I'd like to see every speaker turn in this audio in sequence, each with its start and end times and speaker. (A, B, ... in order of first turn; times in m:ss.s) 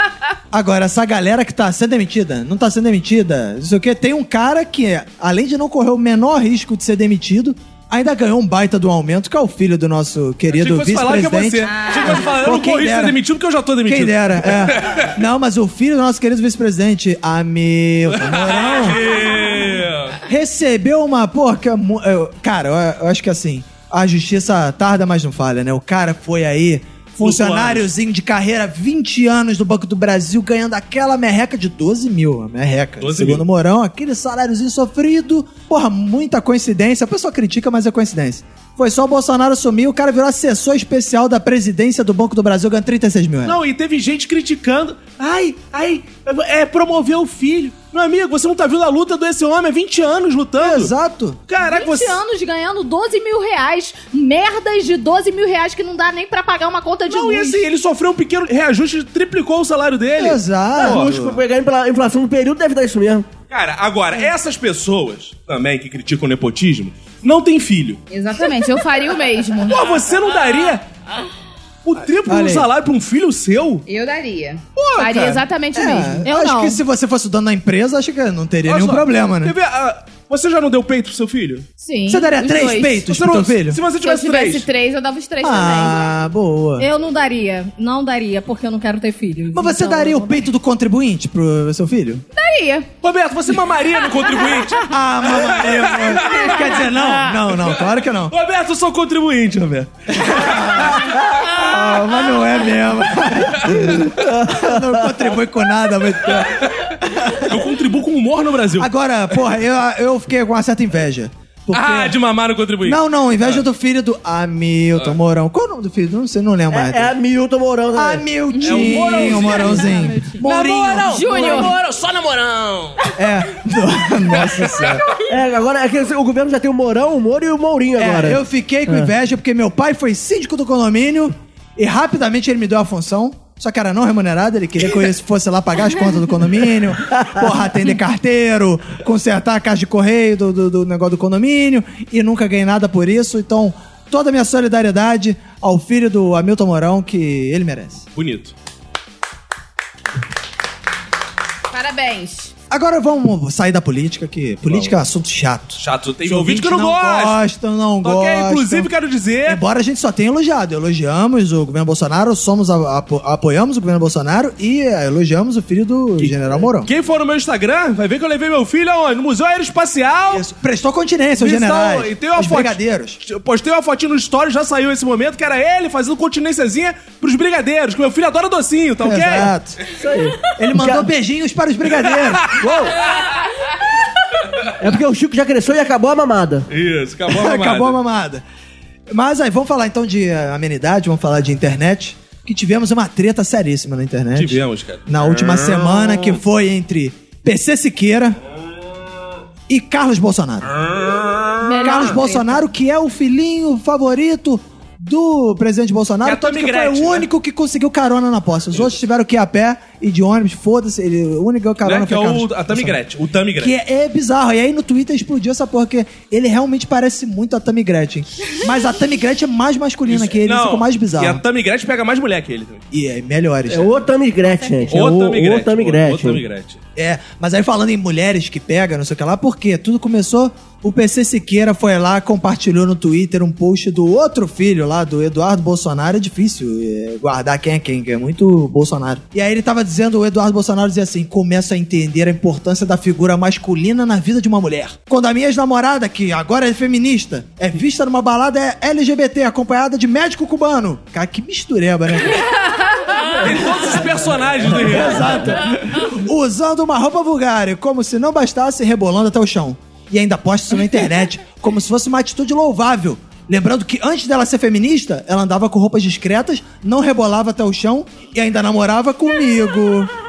0:00.5-0:13.2 A
0:10.5-0:15.1 B
0:11.7-0:12.3 C
0:13.8-0:19.0 A
0:18.1-0:20.2 B
0:20.2-0:43.6 A
0:27.2-0:27.9 B
0:33.0-0:33.4 B
0:43.4-0:50.9 B
0:50.6-0:51.4 A
0:51.5-0:52.2 B
0:51.6-0:57.6 D
0:57.1-1:01.3 B
1:00.2-1:01.4 A
1:00.7-1:03.3 E
1:03.5-1:08.0 B
1:08.1-1:09.9 C
1:09.7-1:10.8 B
1:11.8-1:13.8 B
1:12.2-1:12.7 A
1:13.8-1:16.3 C
1:14.8-1:15.4 B
1:15.7-1:19.5 A
1:16.2-1:16.8 D
1:18.6-1:21.6 B
1:21.8-1:23.0 C
1:22.1-1:23.8 A
1:23.1-1:24.6 B
1:24.0-1:26.2 C
1:25.4-1:26.9 A
1:26.8-1:30.4 D
1:29.5-1:32.2 A
1:32.3-1:32.9 C
1:33.0-1:36.7 B
1:34.9-1:38.3 A
1:37.5-1:41.6 B
1:40.1-1:47.6 A
1:43.5-1:44.0 B
1:44.4-1:45.0 E
1:46.2-1:48.9 B
1:48.8-1:52.2 A
1:51.7-1:53.6 B
1:52.8-1:57.1 A
1:56.7-1:58.2 E
1:57.9-2:01.6 A
1:58.5-1:59.8 C
1:58.6-2:03.0 B
1:58.8-1:59.3 E
1:59.8-2:00.4 D
2:00.9-2:01.7 C
2:03.1-2:05.0 A
2:04.5-2:05.0 B
2:05.3-2:09.1 E
2:08.0-2:28.0 A
2:28.2-2:28.5 B
2:31.7-2:32.5 C
2:32.7-2:38.9 A
2:34.7-2:35.0 B
2:35.8-2:37.4 B
2:38.0-2:39.6 B
2:39.4-2:46.9 A
2:46.8-2:50.4 B
2:50.3-2:53.2 A
2:51.4-2:59.5 B
2:59.0-2:59.8 A
2:59.9-3:01.0 E
3:00.5-3:03.0 A
3:02.0-3:03.2 B
3:04.8-3:06.7 E
3:06.7-3:08.0 B
3:07.3-3:08.4 A
3:09.1-3:18.4 A
3:14.3-3:16.4 B
3:19.7-3:20.7 A
3:20.7-3:22.1 B
3:21.6-3:22.6 D
3:21.8-3:33.0 A
3:26.2-3:27.3 B
3:31.8-3:33.7 B
3:33.6-3:41.4 A
3:40.1-3:42.8 B
3:42.9-3:43.9 A
3:43.7-3:46.4 E
3:44.9-3:46.8 B
3:47.0-4:12.5 A
4:12.8-4:13.4 C
4:13.4-4:15.6 B
4:13.5-4:14.0 A
4:14.7-4:30.1 A